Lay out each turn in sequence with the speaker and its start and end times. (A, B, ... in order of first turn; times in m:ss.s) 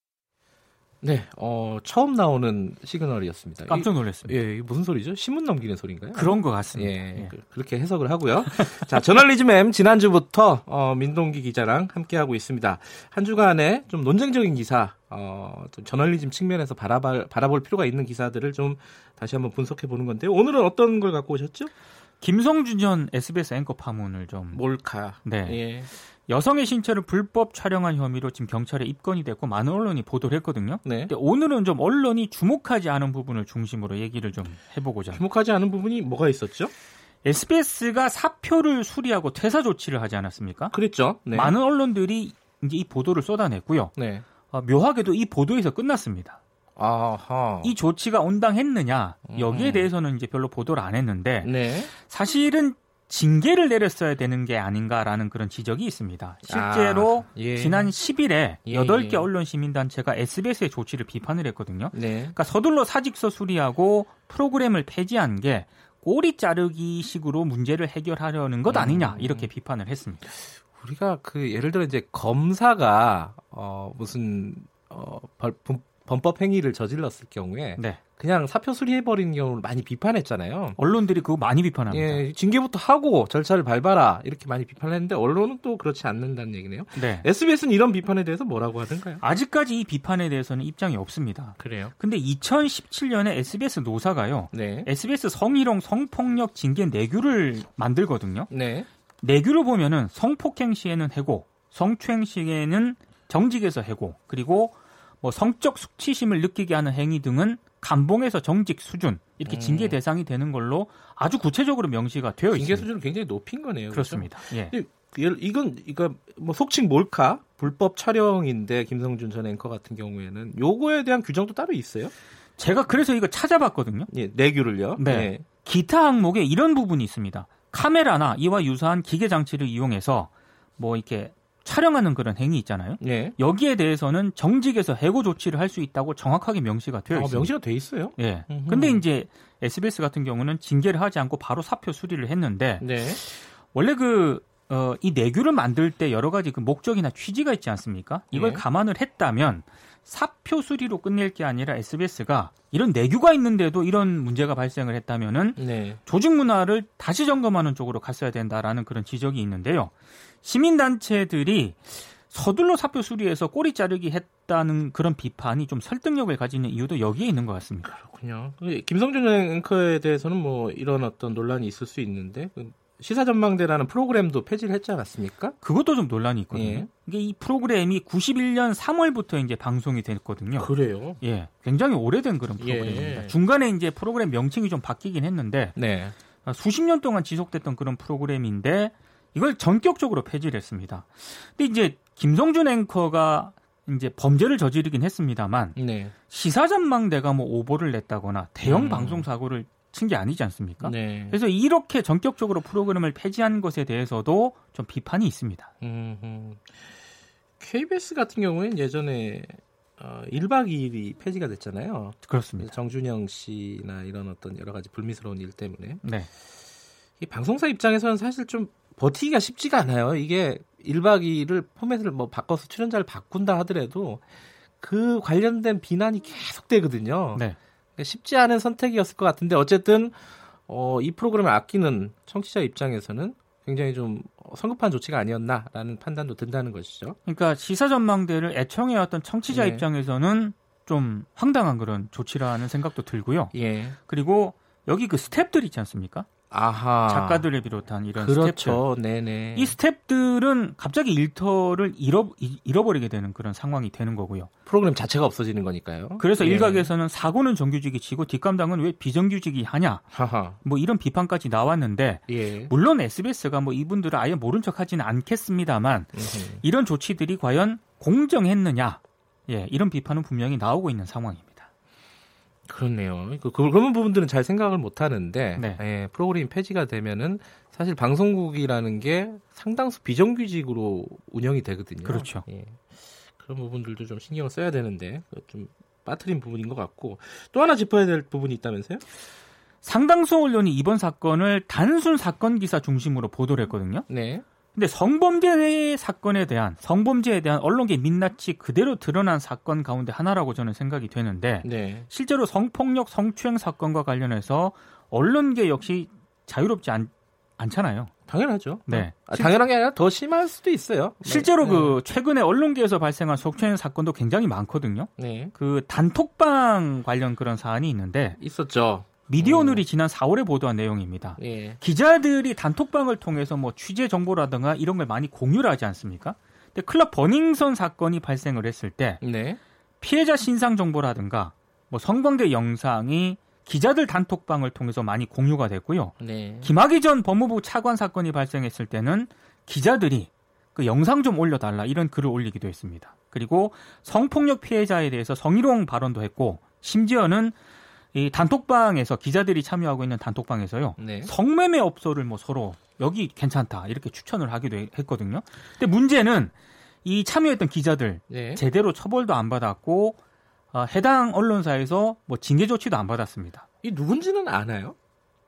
0:01.0-0:21.7 A
0:03.7-0:04.4 B
0:06.1-0:07.3 B
0:22.2-0:24.6 B
0:24.5-0:25.9 A
0:25.2-0:25.6 B
0:26.3-0:35.2 B
0:30.8-0:31.1 A
0:35.1-0:36.7 A
0:37.2-0:40.7 B
0:40.7-0:41.5 A
0:41.3-0:43.9 B
0:43.9-0:44.2 A
0:44.5-0:46.4 B
0:46.8-0:47.7 A
0:47.6-1:10.3 B
0:49.3-0:49.9 A
0:51.4-0:51.9 A
0:56.5-0:57.9 A
0:58.7-0:59.3 A
1:01.9-1:02.4 A
1:08.7-1:09.5 A
1:10.6-1:20.8 A
1:20.8-1:22.2 B
1:21.9-1:29.2 A
1:26.9-1:27.3 B
1:29.2-1:38.5 B
1:31.6-1:31.9 A
1:34.5-1:34.9 A
1:38.5-1:38.9 A
1:39.2-1:52.9 B
1:49.5-1:50.0 A
1:52.5-2:02.1 A
1:53.9-1:54.7 B
2:02.6-2:04.1 B
2:04.1-2:05.4 A
2:05.0-2:17.5 B
2:13.0-2:13.4 A
2:17.1-2:19.0 A
2:18.2-2:47.9 B
2:22.8-2:23.2 A
2:28.3-2:28.6 A
2:35.6-2:36.0 A
2:47.8-2:55.6 A
2:55.6-3:00.7 B
2:56.5-2:56.9 A
3:00.6-3:01.2 A
3:01.2-3:05.8 B
3:02.6-3:03.3 A
3:05.8-3:06.2 A
3:06.4-3:15.8 B
3:15.8-3:16.1 A
3:16.3-3:25.7 B
3:18.6-3:19.3 A
3:20.8-3:21.4 A
3:25.8-3:26.8 A
3:27.6-3:36.0 A
3:32.2-3:32.7 B
3:36.0-3:36.3 B
3:37.2-3:44.2 A
3:44.8-3:47.4 A
3:48.0-3:57.2 A
3:57.2-4:03.5 B
3:59.5-3:59.8 A
4:03.5-4:04.0 A
4:04.1-4:06.3 B
4:06.5-4:07.5 A
4:07.1-4:08.8 B
4:08.1-4:09.8 A
4:09.5-4:14.5 B
4:14.6-4:16.9 A
4:16.2-4:20.1 B
4:20.1-4:20.6 A
4:20.6-4:31.6 B
4:22.3-4:22.7 A
4:26.1-4:26.6 A
4:32.7-4:49.0 A
4:35.6-4:35.8 B
4:42.0-4:42.4 B
4:49.8-4:54.1 B
4:54.1-4:54.4 A
4:54.7-5:08.1 B
5:01.6-5:02.1 A
5:08.3-5:12.0 A
5:08.9-5:09.6 B
5:11.2-5:18.4 B
5:15.2-5:15.5 A
5:18.4-5:19.8 A
5:19.3-5:29.2 B
5:21.4-5:21.8 A
5:29.2-5:29.6 A
5:30.0-5:47.6 B
5:36.2-5:36.7 A
5:48.1-6:00.2 B
5:51.0-5:51.3 A
5:58.3-5:58.6 A
6:00.7-6:03.6 B
6:03.8-6:04.9 A